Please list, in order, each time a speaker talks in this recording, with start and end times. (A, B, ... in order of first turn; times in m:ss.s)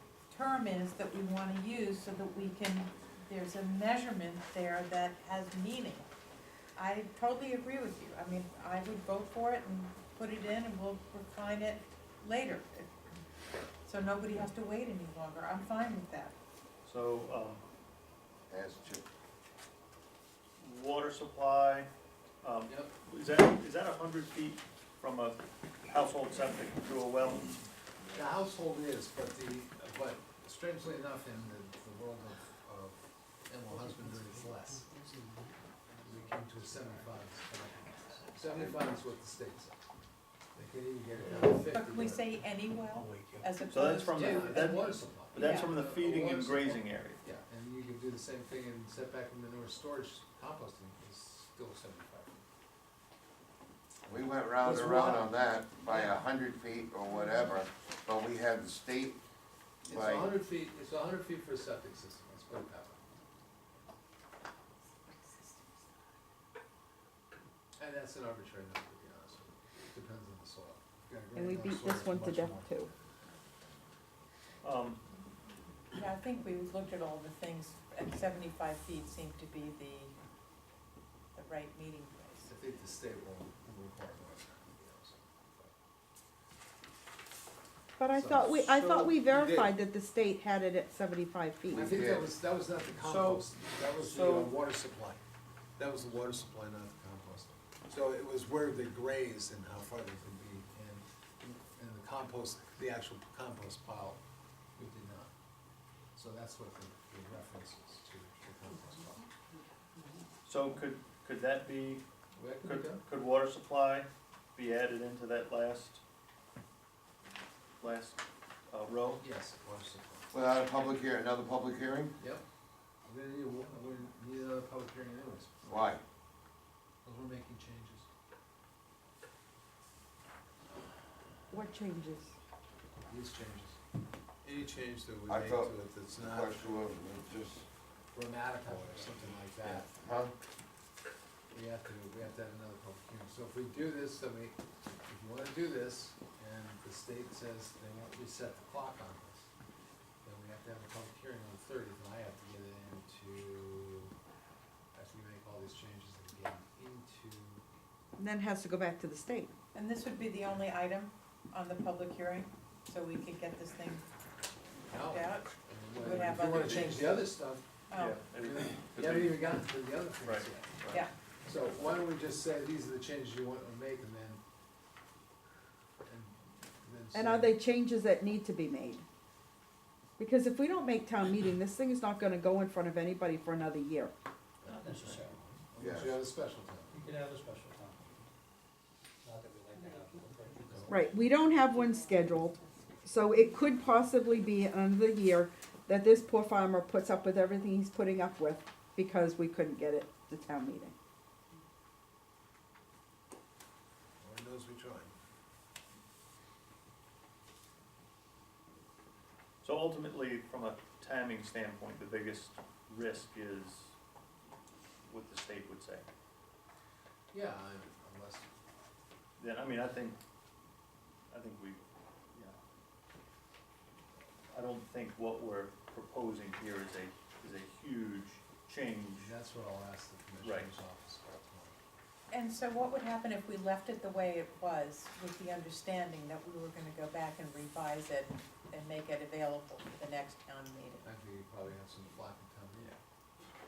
0:00.3-0:06.1 A
0:06.8-0:12.9 A
0:13.8-0:16.3 A
0:16.8-0:17.6 B
0:18.5-0:19.0 C
0:20.6-0:21.9 B
0:22.4-0:27.6 B
0:28.1-0:34.9 D
0:36.0-0:39.8 D
0:40.5-0:42.3 D
0:41.3-0:44.6 A
0:43.7-0:47.2 B
0:44.1-0:52.4 D
0:45.4-0:45.7 A
0:54.1-0:59.2 C
0:54.6-0:55.3 E
0:59.8-1:00.3 C
0:59.9-1:03.0 D
1:05.1-1:05.6 A
1:07.8-1:12.7 D
1:11.3-1:12.9 F
1:14.6-1:15.0 B
1:15.9-1:20.1 A
1:21.3-1:22.5 A
1:22.5-1:25.7 D
1:28.0-1:32.0 F
1:28.1-1:29.7 D
1:28.8-1:29.1 B
1:31.7-1:35.2 D
1:31.8-1:32.3 C
1:33.0-1:34.5 B
1:35.8-1:44.2 D
1:44.7-1:45.3 D
1:46.1-1:49.3 D
1:50.4-1:52.0 B
1:52.3-1:53.0 D
1:52.6-1:56.0 B
1:57.8-1:58.2 B
1:58.7-1:59.2 B
1:59.2-2:00.4 D
2:00.3-2:02.2 C
2:02.2-2:02.4 D
2:03.0-2:06.0 D
2:05.7-2:06.0 C
2:07.0-2:08.1 D
2:11.5-2:12.3 F
2:13.1-2:13.8 D
2:14.4-2:16.8 D
2:15.3-2:17.6 C
2:18.1-2:19.9 D
2:18.6-2:19.1 C
2:19.6-2:20.3 C
2:21.5-2:29.5 D
2:30.2-2:34.1 D
2:34.9-2:37.6 D
2:38.2-2:39.5 F
2:39.7-2:44.0 A
2:44.9-2:47.7 D
2:45.0-2:47.2 A
2:46.2-2:47.0 B
2:47.9-2:48.2 A
2:47.9-2:49.4 B
2:48.3-2:54.4 D
2:50.2-2:51.0 B
2:56.0-2:57.6 D
2:57.1-2:59.0 F
3:00.2-3:04.1 F
3:04.6-3:06.9 D
3:04.6-3:05.4 E
3:05.8-3:06.2 C
3:06.9-3:08.3 E
3:09.2-3:11.2 E
3:09.7-3:10.2 A
3:10.7-3:11.0 D
3:10.9-3:20.9 F
3:24.2-3:25.1 D
3:29.6-3:33.9 B
3:35.0-3:36.0 B
3:37.3-3:38.5 D
3:39.4-3:40.2 B
3:41.3-3:41.8 B
3:44.5-3:49.3 B
3:49.2-3:51.8 D
3:50.4-3:50.7 B
3:52.3-4:01.0 A
4:01.0-4:03.0 D